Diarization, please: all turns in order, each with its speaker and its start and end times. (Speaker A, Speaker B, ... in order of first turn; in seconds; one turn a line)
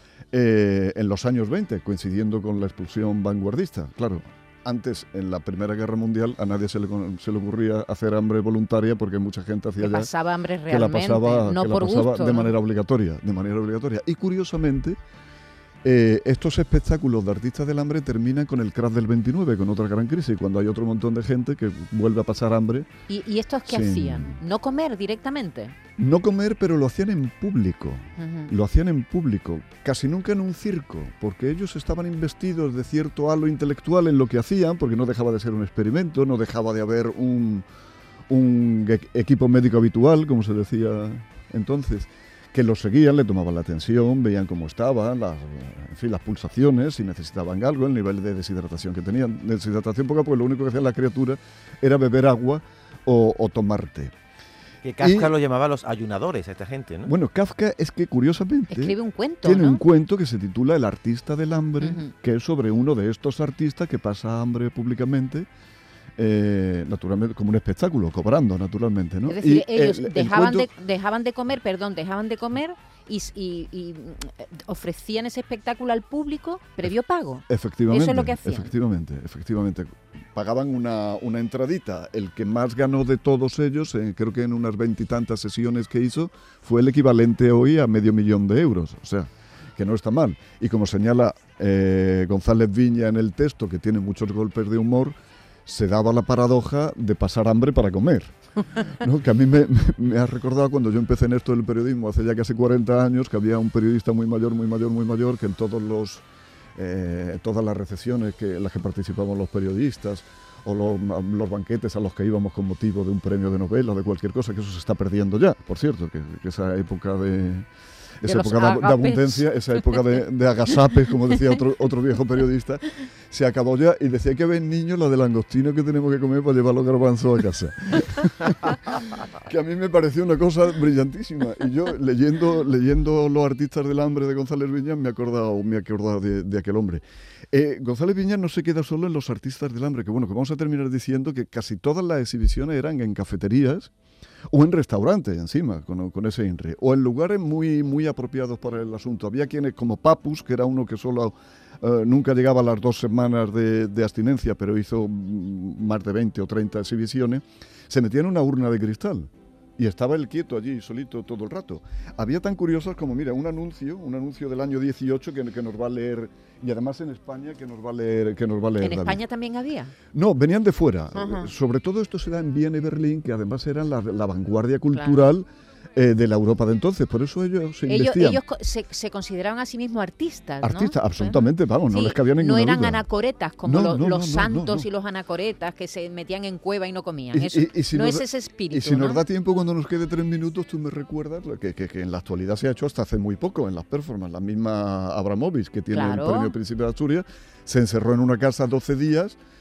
Speaker A: 0.3-10.1
Speaker B: 9.8-12.5
Speaker A: 10.7-15.0
Speaker A: 15.8-22.9
Speaker B: 23.1-25.8
Speaker A: 23.6-24.4
Speaker A: 26.0-37.7
Speaker B: 28.2-28.5
Speaker A: 38.3-54.1
Speaker C: 54.8-57.1
Speaker A: 55.0-55.3
Speaker A: 57.0-65.5
Speaker B: 58.7-59.8
Speaker B: 61.8-62.1
Speaker A: 66.2-70.7
Speaker B: 69.2-78.7
Speaker A: 77.5-106.2
Speaker A: 106.8-117.7
Speaker A: 118.2-143.9
Speaker B: 118.2-120.2
Speaker A: 144.5-169.2
Speaker B: 168.8-169.9
Speaker A: 170.1-178.4
Speaker B: 171.2-171.5
Speaker B: 174.9-175.2
Speaker B: 177.9-189.2
Speaker A: 180.6-183.0
Speaker A: 183.6-184.9
Speaker A: 187.3-199.4
Speaker B: 195.9-196.5